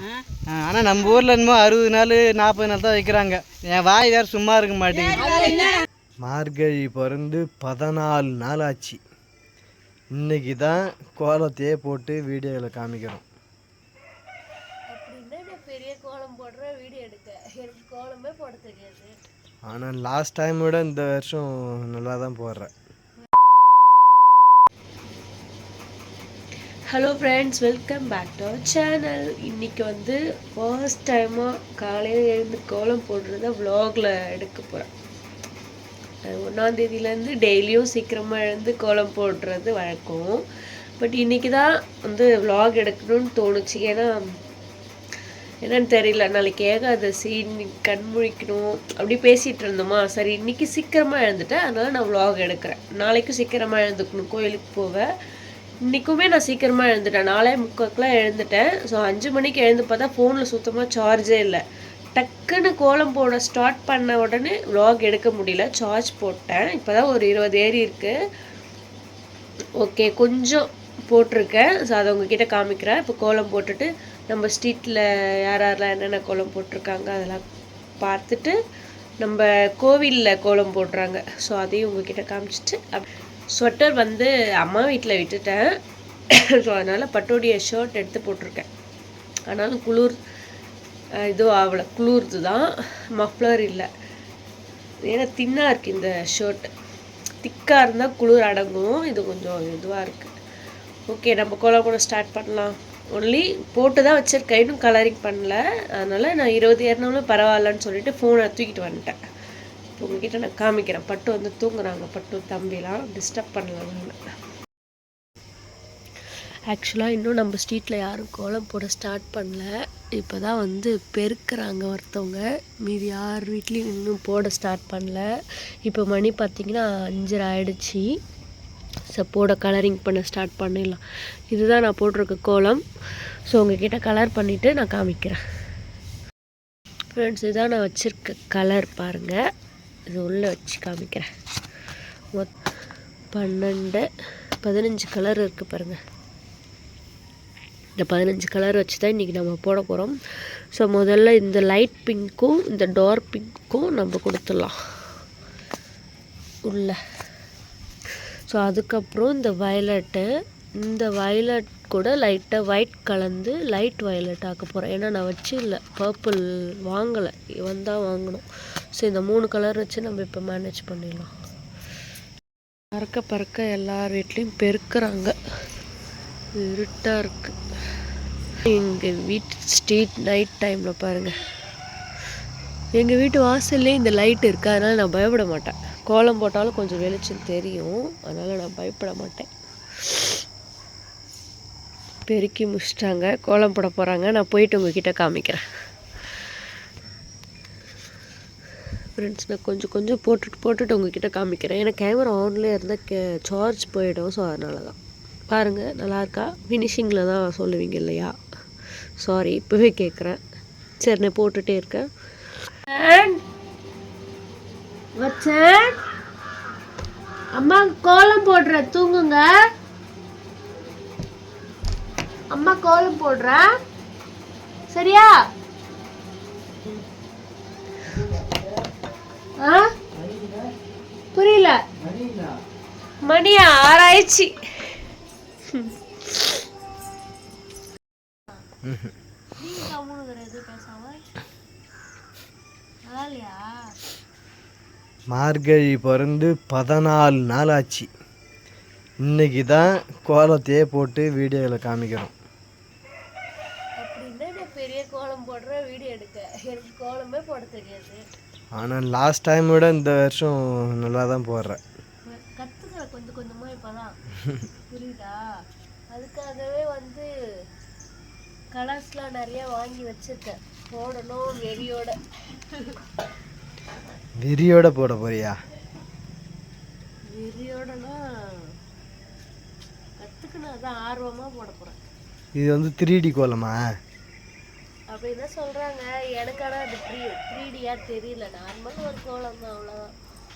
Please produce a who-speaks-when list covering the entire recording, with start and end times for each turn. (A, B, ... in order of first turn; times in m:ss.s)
0:00.5-0:05.6 A
0:05.2-0:05.7 B
0:06.2-0:09.0 A
0:10.2-0:13.2 A
0:14.9-0:19.1 B
0:19.7-0:22.7 A
0:26.9-0:34.9 B
0:36.2-0:40.4 B
0:41.0-0:44.2 B
0:45.6-0:55.0 B
0:55.9-1:01.6 B
1:02.1-1:08.1 B
1:09.8-1:17.4 B
1:18.0-1:18.6 B
1:19.2-1:25.8 B
1:26.3-1:28.7 B
1:29.5-1:30.2 B
1:31.3-1:33.9 B
1:35.1-1:36.7 B
1:37.4-1:40.3 B
1:41.1-1:49.2 B
1:50.0-1:54.2 B
1:56.7-2:05.2 B
2:05.8-2:08.0 B
2:09.1-2:12.8 B
2:13.5-2:15.4 B
2:17.1-2:19.4 B
2:20.1-2:21.3 B
2:23.3-2:24.0 B
2:24.6-2:26.0 B
2:28.0-2:30.2 B
2:30.7-2:34.8 B
2:36.6-2:37.0 B
2:38.5-2:40.2 B
2:40.8-2:51.3 B
2:52.9-2:55.3 B
2:56.6-2:57.6 B
2:58.6-3:01.4 B
3:02.9-3:09.5 B
3:10.0-3:10.4 B
3:12.3-3:15.6 B
3:19.2-3:25.0 B
3:25.5-3:28.4 B
3:29.2-3:30.4 B
3:31.0-3:32.1 B
3:32.9-3:33.4 B
3:35.2-3:36.0 B
3:37.5-3:39.5 B
3:42.5-3:43.7 B
3:44.9-3:45.3 B
3:49.6-3:49.9 B
3:50.2-3:50.6 A
3:51.3-3:51.8 B
3:52.0-3:52.5 A
3:53.2-3:55.0 B
3:55.7-3:56.6 B
3:58.8-3:59.1 A
3:59.6-4:01.3 B
4:03.1-4:03.9 B
4:05.3-4:08.1 A
4:09.2-4:12.3 A
4:14.0-4:18.2 B
4:18.8-4:21.8 A
4:22.2-4:24.2 B
4:24.9-4:25.4 B
4:26.1-4:27.3 B
4:28.7-4:32.2 B
4:32.7-4:33.0 B
4:34.4-4:35.5 A
4:37.3-4:38.7 B
4:40.2-4:42.0 B
4:42.6-4:43.8 A
4:45.1-4:50.1 B